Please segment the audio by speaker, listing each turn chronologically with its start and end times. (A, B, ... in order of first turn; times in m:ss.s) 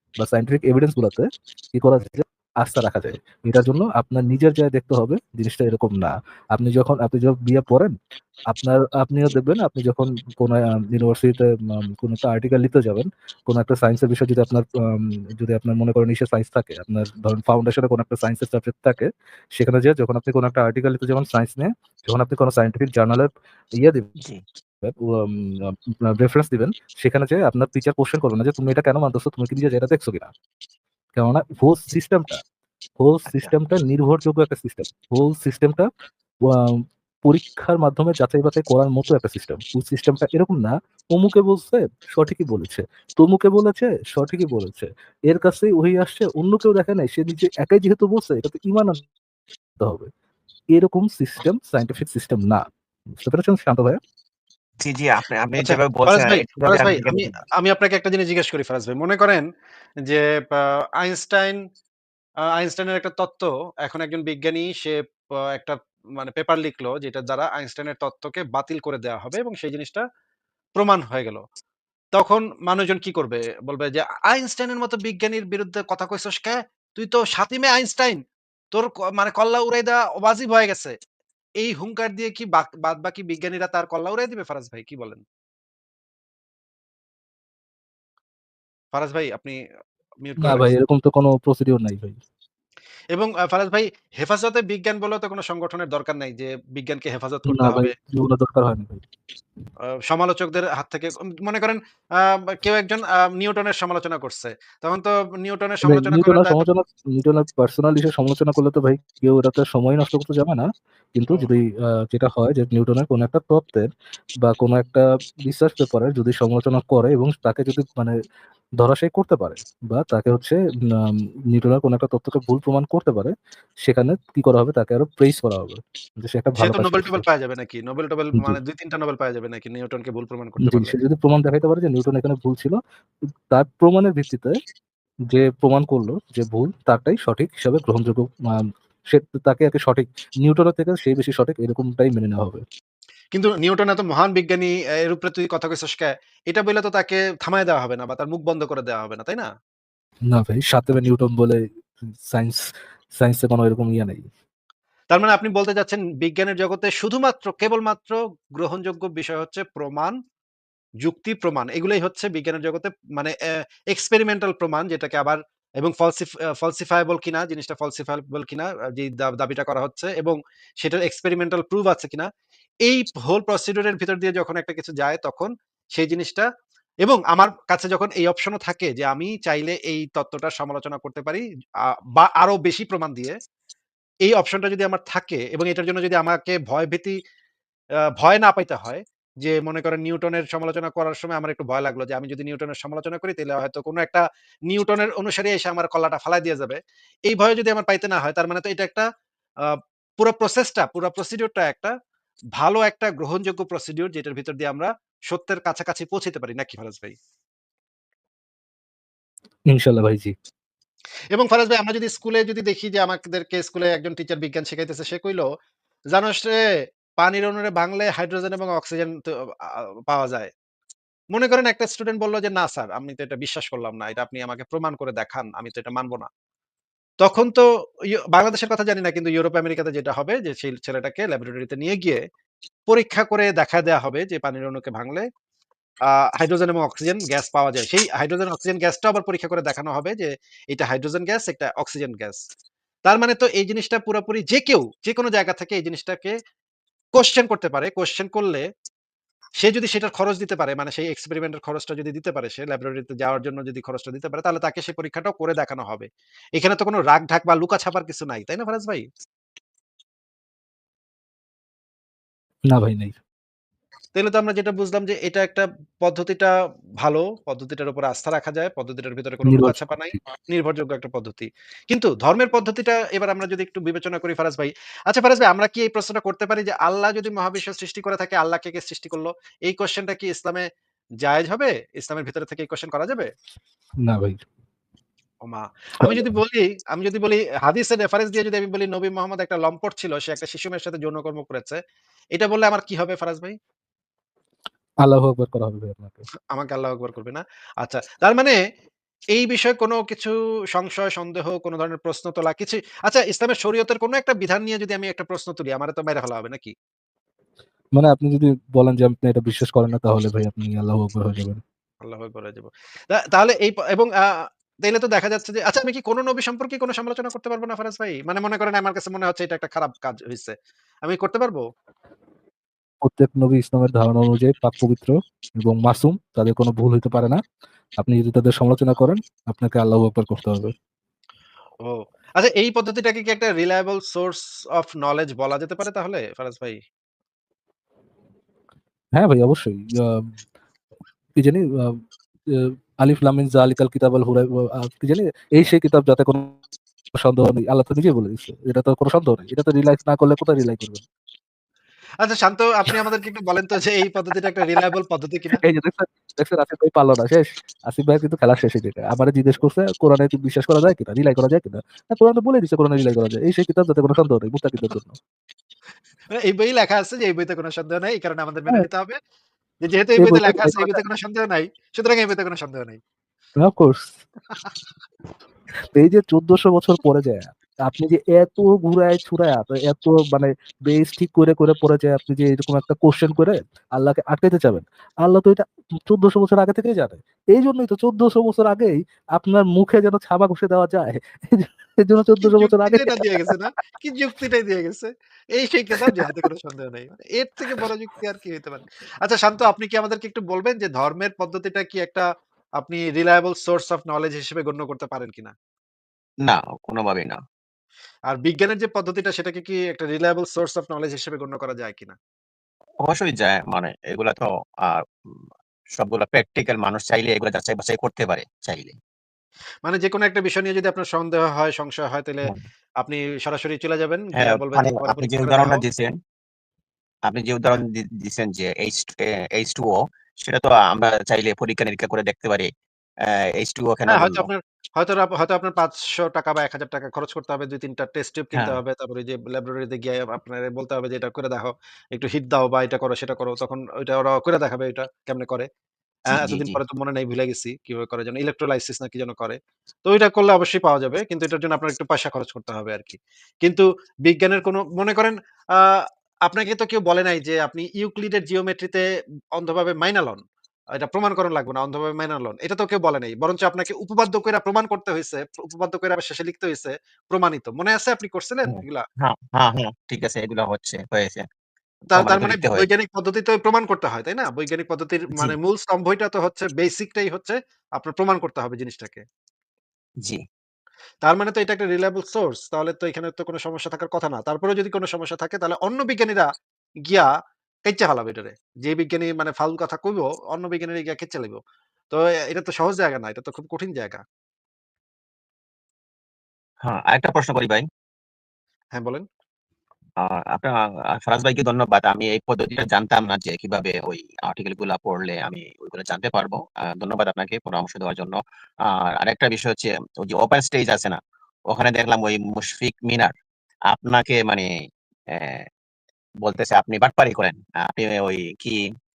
0:00.2-0:08.0 A
0:08.5-0:24.1 A
0:24.8-0:30.3 A
0:31.2-0:32.4 A
0:33.0-0:35.9 A
0:36.4-0:49.0 A
0:49.8-0:50.1 A
0:50.7-0:54.0 A
0:54.8-0:57.4 B
0:55.6-0:59.5 C
1:00.1-1:01.6 C
1:02.6-1:10.0 C
1:10.8-1:11.4 C
1:12.2-1:18.2 C
1:18.7-1:21.0 C
1:21.6-1:25.2 C
1:28.9-1:29.6 C
1:30.2-1:30.7 C
1:30.4-1:32.2 A
1:33.1-1:37.9 C
1:37.5-1:39.0 A
1:39.9-1:46.7 C
1:45.8-1:53.9 A
1:54.4-1:58.2 A
1:58.8-2:07.3 A
2:06.6-2:11.0 C
2:10.6-2:12.8 A
2:13.5-2:14.6 A
2:15.3-2:22.6 A
2:23.3-2:29.5 C
2:30.3-2:34.3 A
2:35.1-2:40.2 C
2:41.0-2:43.3 C
2:43.9-2:52.3 C
2:52.8-2:56.5 C
2:57.0-3:01.4 C
3:02.2-3:03.3 C
3:04.2-3:07.2 C
3:08.2-3:19.0 C
3:19.7-3:21.9 C
3:22.5-3:27.2 C
3:29.7-3:30.3 A
3:31.3-3:35.5 C
3:36.1-3:36.7 C
3:37.2-3:40.5 C
3:41.3-3:46.3 C
3:47.2-3:52.2 C
3:52.9-3:55.3 C
3:56.2-4:02.4 C
4:03.0-4:06.4 C
4:07.2-4:08.7 C
4:09.6-4:19.1 C
4:22.7-4:23.2 A
4:24.1-4:40.7 C
4:29.4-4:30.2 A
4:41.2-4:43.3 C
4:44.0-4:44.4 A
4:45.4-4:51.8 C
4:52.3-4:53.6 C
4:55.0-4:56.2 A
4:56.5-4:58.6 C
4:59.3-5:06.7 C
5:08.0-5:11.6 A
5:12.0-5:21.6 C
5:23.0-5:27.4 A
5:28.0-5:30.7 A
5:31.8-5:36.8 C
5:39.1-5:40.3 A
5:41.4-5:46.6 A
5:47.1-5:51.0 A
5:52.2-5:55.6 C
5:55.5-6:05.2 A
6:06.3-6:09.2 C
6:09.8-6:13.0 C
6:10.2-6:11.0 A
6:13.6-6:14.2 A
6:15.9-6:33.6 A
6:32.4-6:42.2 C
6:35.9-6:36.3 A
6:42.8-6:45.5 C
6:46.4-6:47.4 B
6:48.3-6:52.2 C
6:53.0-6:55.0 B
6:56.0-6:58.9 B
6:59.8-7:05.8 C
7:04.4-7:06.1 B
7:07.3-7:12.7 B
7:13.2-7:14.5 B
7:14.1-7:25.7 C
7:26.3-7:39.0 C
7:26.3-7:26.8 B
7:39.6-7:40.4 C
7:40.9-7:49.0 C
7:48.7-7:51.5 B
7:52.1-7:52.9 B
7:52.1-7:59.2 C
8:01.2-8:06.5 C
8:07.0-8:07.3 C
8:07.9-8:11.6 C
8:12.1-8:14.2 C
8:16.8-8:17.8 B
8:19.0-8:19.2 C
8:20.2-8:33.3 B
8:33.9-8:34.7 B
8:35.3-8:35.6 B
8:36.4-8:38.8 B